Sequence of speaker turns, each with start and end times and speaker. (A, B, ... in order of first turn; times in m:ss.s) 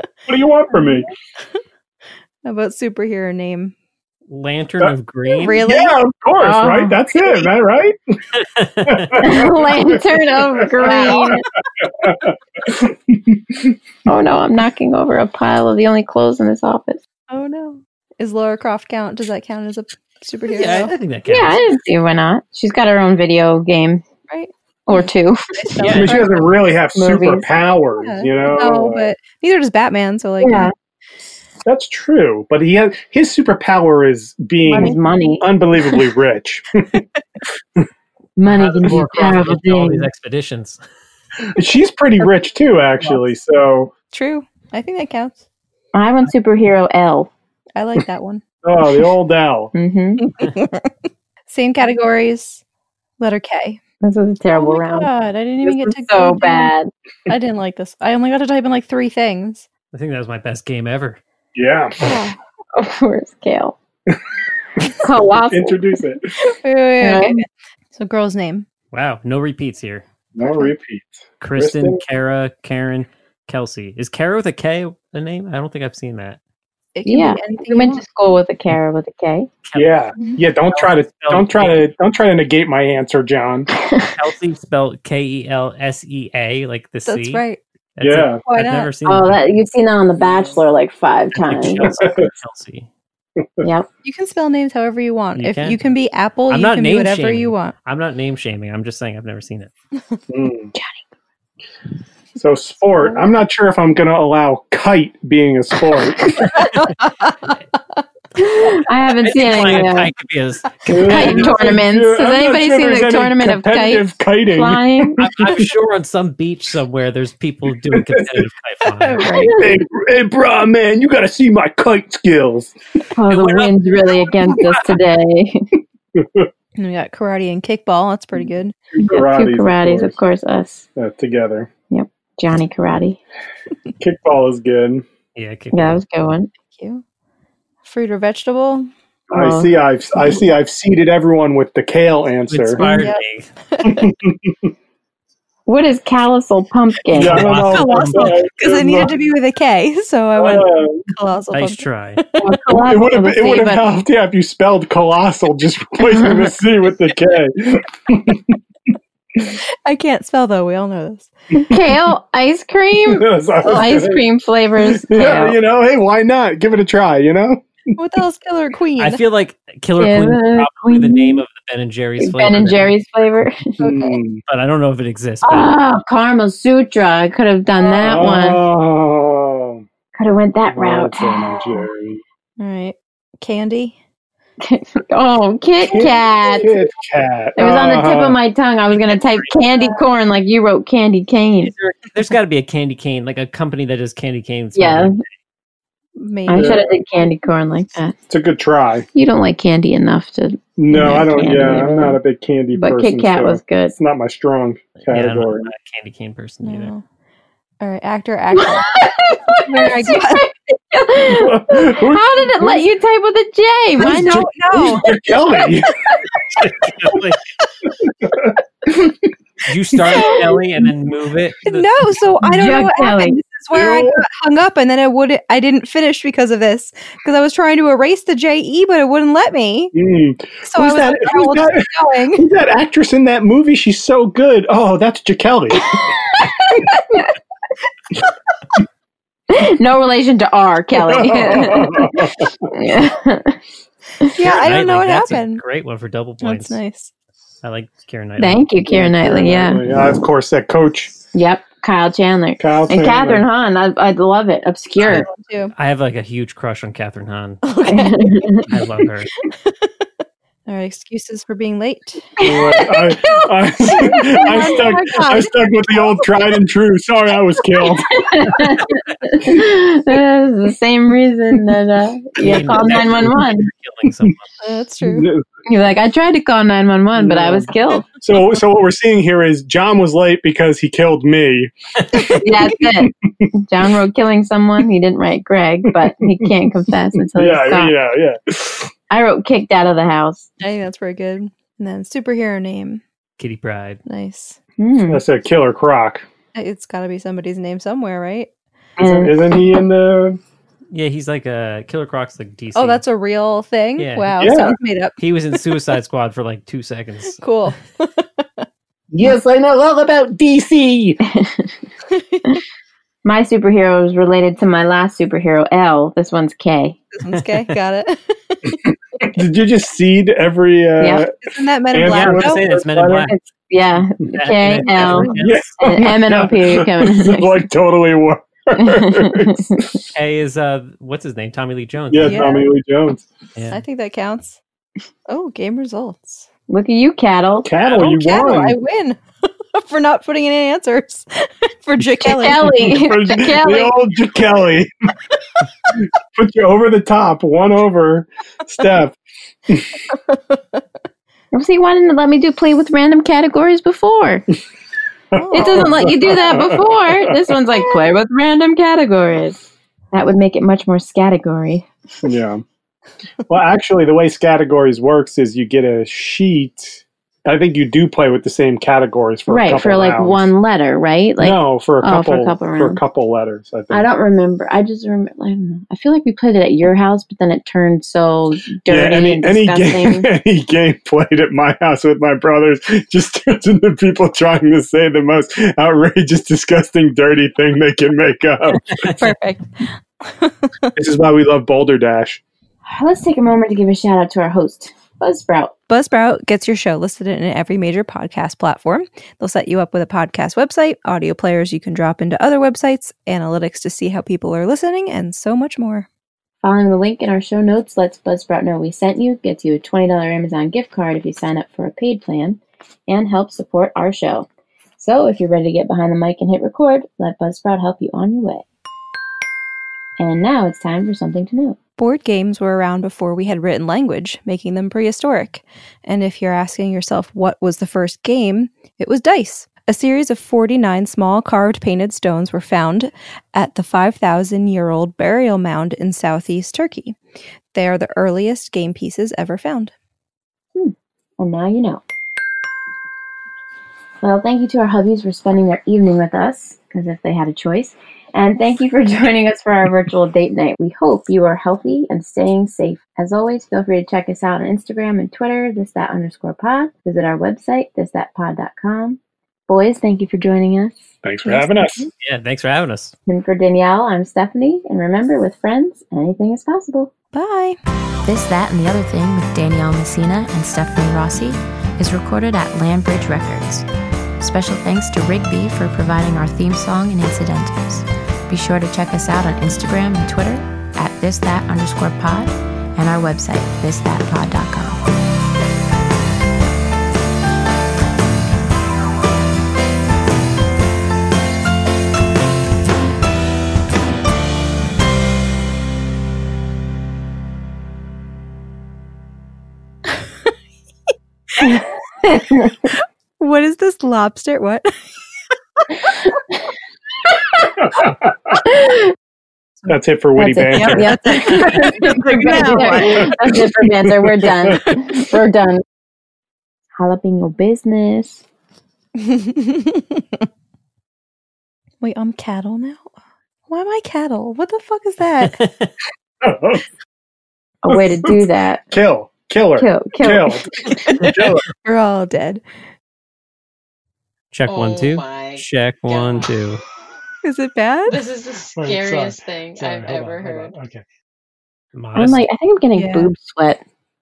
0:00.3-0:01.1 A
0:02.4-0:03.7 B
0:04.3-0:05.6 C
0:05.4-0:06.0 B
0:05.6-0:08.2 A
0:06.4-0:07.5 D
0:08.3-0:09.3 C
0:08.8-0:13.8 A
0:09.2-0:11.4 D
0:10.8-0:11.4 B
0:14.1-0:17.0 D
0:17.3-0:20.9 B
0:20.5-0:21.7 C
0:21.3-0:24.0 D
0:24.3-0:26.6 B
0:24.9-0:25.5 D
0:25.8-0:26.3 C
0:25.9-0:29.1 A
0:27.0-0:27.5 D
0:28.0-0:30.7 B
0:30.4-0:30.7 D
0:31.6-0:37.0 A
0:34.6-0:35.5 D
0:38.4-0:40.1 D
0:38.4-0:40.8 C
0:41.6-0:43.9 A
0:44.1-0:45.4 B
0:45.9-0:47.3 D
0:47.8-0:48.4 B
0:48.6-0:49.7 A
0:49.7-0:50.2 D
0:50.2-0:50.9 B
0:51.5-0:52.6 B
0:53.2-0:53.8 B
0:54.0-0:55.1 D
0:54.5-0:56.7 B
0:55.6-0:56.9 D
0:57.3-0:59.7 B
0:59.9-1:01.2 C
1:01.6-1:02.0 A
1:02.0-1:02.4 B
1:02.8-1:03.8 D
1:04.8-1:06.4 A
1:05.0-1:05.8 D
1:06.6-1:08.7 B
1:07.0-1:07.4 D
1:08.9-1:10.1 C
1:10.4-1:12.0 A
1:10.4-1:10.7 B
1:11.4-1:16.4 C
1:17.0-1:18.0 B
1:17.0-1:19.5 D
1:19.6-1:21.9 C
1:19.8-1:23.7 A
1:23.8-1:24.1 D
1:24.2-1:27.4 C
1:27.1-1:27.6 B
1:28.0-1:29.4 C
1:28.0-1:28.4 A
1:28.4-1:28.9 B
1:29.1-1:31.9 D
1:31.4-1:32.9 C
1:31.8-1:32.3 A
1:33.6-1:33.9 D
1:34.0-1:37.7 B
1:35.4-1:35.8 C
1:36.5-1:39.7 C
1:40.3-1:40.7 A
1:40.8-1:41.0 D
1:42.4-1:46.4 A
1:46.4-1:46.9 C
1:47.0-1:47.6 B
1:48.4-1:50.1 D
1:49.2-1:51.5 C
1:50.9-1:55.7 A
1:51.0-1:55.3 D
1:51.1-1:51.4 B
1:55.2-1:59.5 C
1:57.9-1:58.4 A
1:58.9-1:59.6 B
1:59.3-2:02.7 A
2:03.2-2:05.7 D
2:03.3-2:04.8 C
2:06.2-2:06.5 A
2:06.8-2:08.8 B
2:08.9-2:10.2 A
2:09.1-2:10.9 D
2:11.0-2:11.7 A
2:11.9-2:13.2 D
2:14.0-2:15.1 A
2:15.4-2:16.0 C
2:15.7-2:16.5 D
2:16.7-2:17.0 B
2:17.8-2:18.9 B
2:19.3-2:20.4 D
2:19.3-2:23.0 A
2:22.5-2:23.5 C
2:22.8-2:24.1 B
2:23.8-2:24.7 A
2:25.7-2:27.4 D
2:27.1-2:28.4 C
2:27.1-2:29.1 A
2:27.2-2:32.6 B
2:30.4-2:31.0 A
2:31.5-2:32.2 C
2:32.4-2:33.9 D
2:32.7-2:38.6 A
2:36.0-2:36.5 D
2:39.8-2:41.3 B
2:41.5-2:45.6 D
2:43.0-2:44.3 A
2:44.8-2:48.0 A
2:48.0-2:49.2 B
2:49.0-2:52.9 C
2:50.0-2:51.4 D
2:52.2-2:53.6 D
2:53.8-2:54.2 B
2:53.8-2:54.4 A
2:54.5-2:55.7 C
2:55.4-2:58.6 D
2:57.8-2:59.8 A
3:00.2-3:01.9 D
3:00.7-3:02.2 A
3:02.6-3:04.0 B
3:04.6-3:06.9 D
3:05.8-3:08.4 A
3:07.6-3:11.7 D
3:11.6-3:15.3 C
3:14.8-3:15.2 D
3:16.2-3:16.8 B
3:16.5-3:18.2 D
3:16.5-3:17.0 A
3:18.3-3:19.1 A
3:19.2-3:22.2 D
3:20.8-3:25.7 A
3:22.8-3:24.0 D
3:25.1-3:26.9 C
3:26.6-3:27.0 B
3:27.8-3:30.5 B
3:28.5-3:34.4 D
3:31.2-3:32.8 A
3:34.0-3:35.4 B
3:34.0-3:36.0 A
3:36.6-3:37.4 C
3:38.0-3:39.3 A
3:39.6-3:41.9 C
3:40.0-3:40.4 A
3:40.1-3:40.5 B
3:41.6-3:49.9 B
3:42.4-3:43.4 D
3:43.7-3:44.2 A
3:50.0-3:56.0 A
3:50.6-3:52.5 B
3:56.3-3:57.3 D
3:59.5-4:03.6 D
4:01.0-4:02.7 A
4:04.2-4:05.6 B
4:04.4-4:06.8 C
4:06.4-4:07.1 B
4:07.6-4:08.7 C
4:08.4-4:09.8 D
4:08.9-4:11.1 A
4:11.3-4:15.3 D
4:12.6-4:13.4 A
4:15.0-4:17.6 C
4:15.0-4:15.7 B
4:17.6-4:18.7 B
4:17.9-4:18.7 D
4:18.7-4:19.3 C
4:19.5-4:20.1 B
4:20.7-4:26.3 B
4:22.4-4:28.2 A
4:28.1-4:33.7 D
4:32.4-4:34.6 C
4:34.6-4:35.3 B
4:35.0-4:35.4 A
4:35.7-4:38.1 D
4:37.2-4:37.7 A
4:38.2-4:43.5 A
4:42.4-4:47.9 D
4:45.9-4:46.5 A
4:47.4-4:48.9 A
4:49.1-4:50.5 D
4:50.6-4:53.0 B
4:53.4-4:54.0 C
4:54.1-4:54.6 B
4:54.8-4:55.2 D
4:55.1-4:56.3 A
4:56.5-4:58.5 B
4:59.0-4:59.4 D
4:59.0-5:00.4 A
5:00.9-5:03.0 C
5:02.8-5:05.6 B
5:04.0-5:04.4 C
5:04.4-5:04.8 A
5:05.2-5:07.4 C
5:07.3-5:08.7 B
5:09.1-5:11.2 A
5:11.3-5:11.7 D
5:12.1-5:12.5 B
5:13.2-5:17.0 D
5:17.1-5:18.8 B
5:17.3-5:17.6 C
5:18.7-5:23.3 A
5:21.0-5:21.3 D
5:21.4-5:22.6 B
5:22.0-5:23.4 C
5:23.3-5:27.6 D
5:24.3-5:25.8 C
5:25.0-5:25.5 B
5:25.4-5:30.0 A
5:28.8-5:29.8 D
5:30.2-5:32.6 C
5:32.1-5:33.3 A
5:32.2-5:32.7 B
5:33.6-5:33.8 C
5:33.7-5:34.6 B
5:35.3-5:36.5 B
5:36.7-5:37.7 D
5:37.6-5:38.8 A
5:37.9-5:43.1 B
5:42.2-5:44.0 D
5:42.8-5:44.9 A
5:46.0-5:49.2 A
5:49.7-5:50.0 A
5:50.3-5:50.6 B
5:51.5-5:54.4 D
5:55.3-5:57.5 A
5:55.4-5:56.7 B
5:55.5-5:59.6 D
6:00.1-6:01.9 D
6:02.2-6:02.6 A
6:03.5-6:10.5 A
6:09.5-6:13.0 D
6:11.4-6:14.1 A
6:13.9-6:20.3 D
6:18.9-6:29.2 A
6:29.2-6:30.9 B
6:31.0-6:32.4 A
6:32.9-6:35.7 D
6:35.9-6:46.1 B
6:46.6-6:58.6 D
7:00.2-7:01.8 D
7:02.0-7:17.2 B
7:17.7-7:19.9 B
7:20.8-7:22.0 D
7:24.2-7:41.0 D
7:41.2-7:42.1 A
7:41.4-7:42.1 B
7:42.2-7:43.1 C
7:43.3-7:47.1 D
7:47.3-7:47.8 B
7:48.2-7:53.9 E
7:54.4-8:05.1 E
8:21.6-8:22.9 D
8:23.4-8:24.9 B
8:27.8-8:28.6 A
8:28.6-8:29.1 D
8:29.9-8:31.6 A
8:30.4-8:35.8 D
8:30.7-8:33.6 B
8:32.4-8:34.8 A
8:37.0-8:38.4 D
8:39.2-8:40.2 B
8:42.0-8:43.1 B
8:43.7-8:45.6 B
8:45.4-8:45.9 C
8:46.4-8:46.8 A
8:47.8-8:48.8 D
8:47.9-8:51.7 A
8:49.8-8:50.8 D
8:50.8-8:52.6 B
8:54.5-8:56.8 C
8:54.7-8:56.5 F
8:57.4-8:58.2 B
8:58.1-9:00.8 F
8:58.8-9:01.0 A
9:01.9-9:02.5 C
9:02.2-9:03.8 D
9:03.0-9:03.3 B